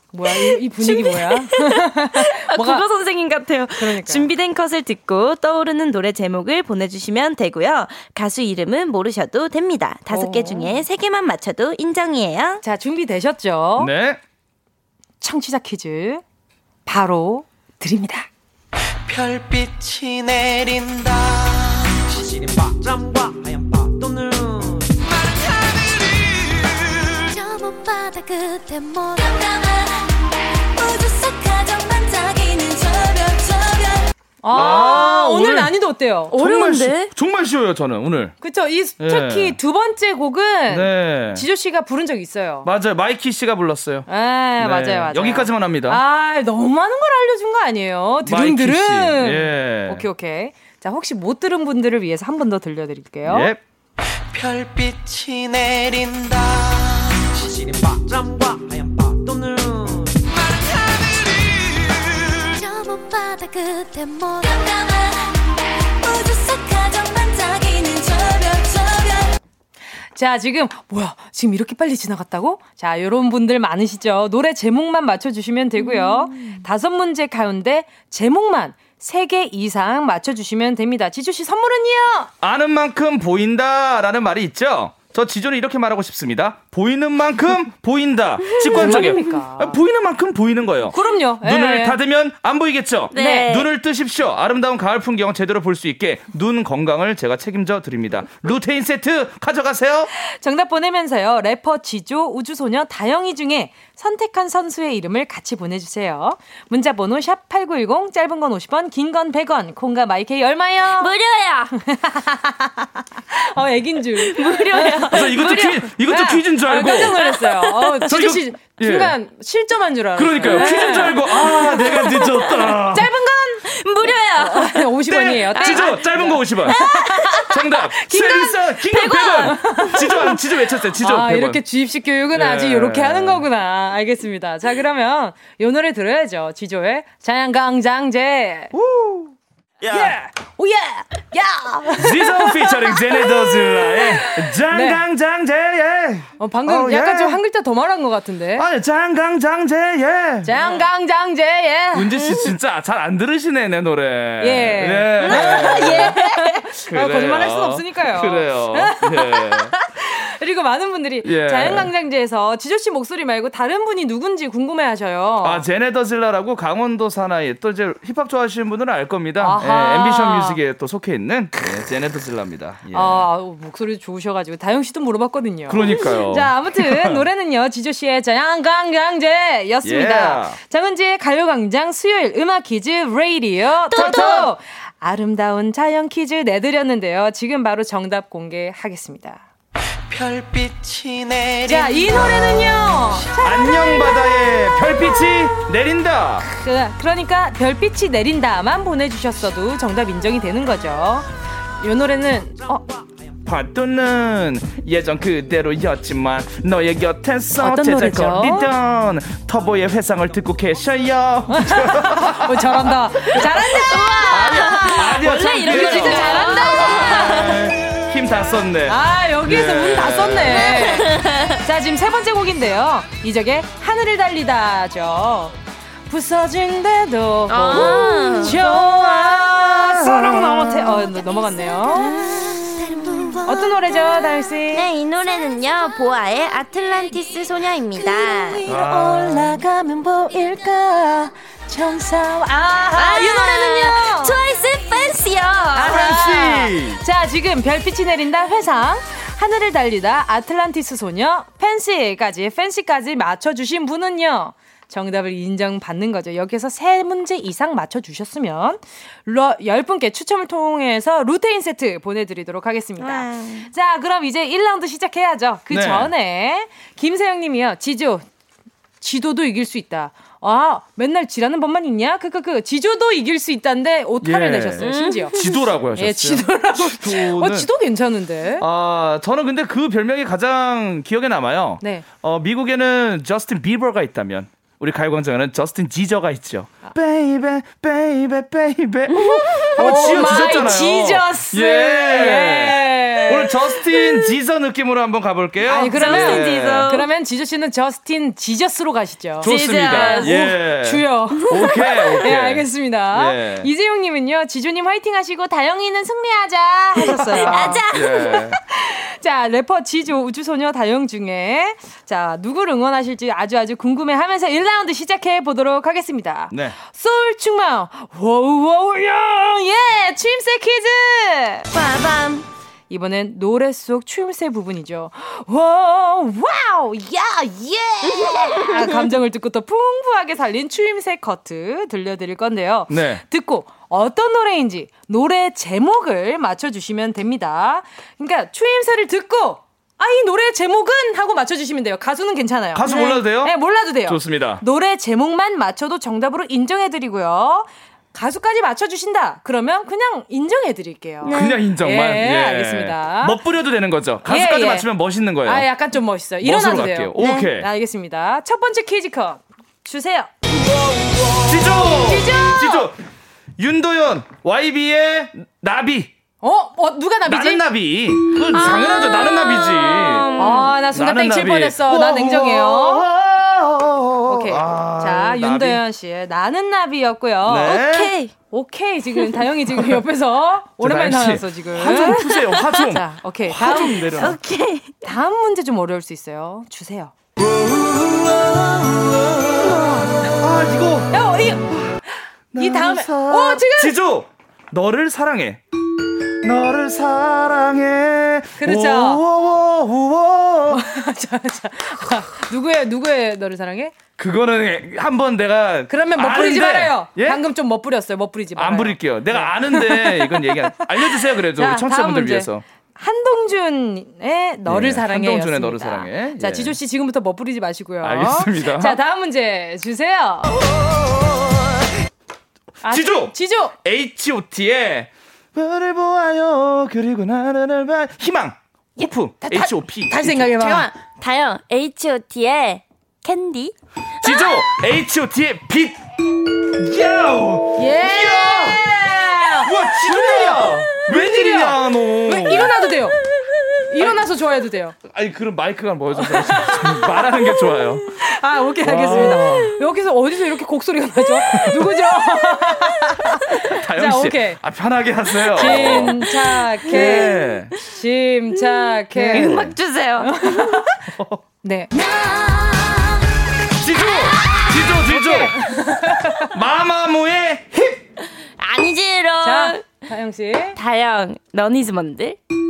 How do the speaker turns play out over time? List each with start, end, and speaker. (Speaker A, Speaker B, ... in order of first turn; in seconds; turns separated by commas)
Speaker A: 0.1-2.9, Speaker B: 0.3-12.6, Speaker A: 3.8-4.3, Speaker A: 10.1-10.8, Speaker A: 12.6-13.9, Speaker C: 13.8-14.2, Speaker A: 15.2-16.2, Speaker A: 16.9-18.3, Speaker D: 19.1-24.9, Speaker E: 27.2-34.1, Speaker A: 34.4-36.4, Speaker C: 34.5-35.7, Speaker B: 36.3-37.1, Speaker C: 36.4-38.4, Speaker A: 38.4-42.7, Speaker C: 39.0-39.6, Speaker C: 40.7-41.5, Speaker C: 42.6-44.1, Speaker A: 44.1-53.5, Speaker C: 44.6-46.0, Speaker C: 48.2-50.1, Speaker C: 53.2-53.6, Speaker D: 54.3-60.2, Speaker E: 62.5-69.3, Speaker A: 70.2-82.3, Speaker C: 82.4-100.1, Speaker B: 88.5-88.8, Speaker A: 88.6-89.8, Speaker A: 90.9-92.0, Speaker B: 93.1-93.7, Speaker A: 93.1-93.6, Speaker A: 100.2-111.1, Speaker B: 111.0-111.8, Speaker A: 111.9-122.3, Speaker B: 114.2-115.8, Speaker C: 115.1-117.2, Speaker B: 117.5-117.9, Speaker C: 118.1-119.2, Speaker C: 120.2-123.1, Speaker B: 120.4-122.7, Speaker A: 122.9-138.7, Speaker B: 123.6-124.9, Speaker C: 125.1-126.8, Speaker B: 125.4-126.0, Speaker B: 126.8-127.4, Speaker C: 127.5-131.6, Speaker B: 128.9-129.9, Speaker C: 132.3-133.4, Speaker C: 138.7-139.3, Speaker C: 139.9-140.3, Speaker A: 139.9-145.0, Speaker C: 142.0-147.4, Speaker A: 146.4-148.7, Speaker C: 148.6-150.6, Speaker A: 150.4-152.5, Speaker C: 151.9-156.2, Speaker A: 154.4-165.7, Speaker B: 155.2-156.6, Speaker C: 156.9-159.7, Speaker C: 161.2-161.9, Speaker C: 165.4-173.3, Speaker A: 169.4-170.6, Speaker A: 172.9-189.4, Speaker C: 175.7-177.3, Speaker C: 179.8-180.6, Speaker B: 183.9-184.5, Speaker C: 183.9-184.5, Speaker D: 190.1-193.3, Speaker A: 191.7-195.5, Speaker C: 193.4-196.4, Speaker A: 196.4-201.3, Speaker A: 201.8-202.9, Speaker C: 203.4-212.9, Speaker A: 207.6-208.7, Speaker A: 211.5-217.6, Speaker B: 213.8-217.4, Speaker C: 214.3-220.6, Speaker A: 218.9-225.5, Speaker B: 220.7-221.6, Speaker A: 226.1-232.3, Speaker B: 227.5-228.6, Speaker C: 228.6-231.0, Speaker B: 231.9-238.7, Speaker A: 233.4-234.9, Speaker A: 238.0-244.4, Speaker C: 238.7-239.4, Speaker B: 242.9-246.0, Speaker A: 245.8-268.2, Speaker C: 245.8-247.0, Speaker B: 263.0-263.7, Speaker C: 265.7-266.1, Speaker A: 269.0-278.6, Speaker C: 274.2-277.7, Speaker B: 274.8-275.6, Speaker C: 278.6-296.9, Speaker A: 289.2-294.3, Speaker B: 289.8-290.7, Speaker A: 295.6-321.7, Speaker B: 295.8-297.1, Speaker B: 299.4-300.5, Speaker C: 299.4-303.7, Speaker B: 301.5-302.2, Speaker C: 307.0-308.6, Speaker B: 307.2-308.1, Speaker C: 316.5-316.8, Speaker B: 321.7-322.5, Speaker A: 322.9-353.4, Speaker B: 328.1-328.8, Speaker C: 332.9-333.2, Speaker C: 342.8-344.6, Speaker B: 351.2-351.6, Speaker C: 351.3-355.7, Speaker A: 354.2-354.9, Speaker A: 355.4-360.3, Speaker C: 356.4-357.7, Speaker B: 357.2-357.5, Speaker C: 361.4-362.9, Speaker A: 361.7-362.9, Speaker C: 363.6-366.1, Speaker A: 366.4-367.6, Speaker C: 367.3-370.4, Speaker A: 368.5-369.6, Speaker B: 368.5-370.8, Speaker A: 370.4-373.1, Speaker C: 370.9-375.8, Speaker A: 374.3-377.9, Speaker C: 377.5-378.1, Speaker B: 377.7-378.3, Speaker A: 378.5-384.2, Speaker C: 380.8-384.4, Speaker B: 382.3-382.6, Speaker B: 383.9-384.9, Speaker A: 385.0-387.1, Speaker D: 387.7-388.0, Speaker C: 387.9-388.3, Speaker C: 389.6-391.1, Speaker A: 391.1-394.0, Speaker C: 391.7-392.0, Speaker C: 392.5-395.6, Speaker C: 396.4-400.8, Speaker A: 398.6-399.2, Speaker A: 400.7-404.0, Speaker C: 404.2-407.4, Speaker A: 405.9-420.5, Speaker C: 408.6-412.6, Speaker C: 414.7-416.8, Speaker C: 418.0-419.0, Speaker A: 422.8-423.8, Speaker C: 422.9-430.9, Speaker A: 429.0-430.9, Speaker B: 431.2-433.8, Speaker C: 434.2-436.0, Speaker C: 436.8-442.8, Speaker A: 437.8-443.2, Speaker A: 443.9-444.9, Speaker C: 444.0-444.2, Speaker C: 445.0-448.1, Speaker A: 446.2-454.6, Speaker C: 448.8-449.8, Speaker C: 451.5-451.8, Speaker C: 453.6-456.2, Speaker A: 455.5-461.0, Speaker B: 455.6-456.2, Speaker C: 456.9-457.7, Speaker B: 457.0-457.5, Speaker B: 458.8-460.8, Speaker C: 459.3-459.7, Speaker A: 461.6-461.9, Speaker E: 462.2-462.7, Speaker C: 463.8-465.6, Speaker A: 465.1-466.5, Speaker C: 466.5-468.0, Speaker B: 468.6-469.9, Speaker A: 469.4-470.8, Speaker B: 470.8-472.4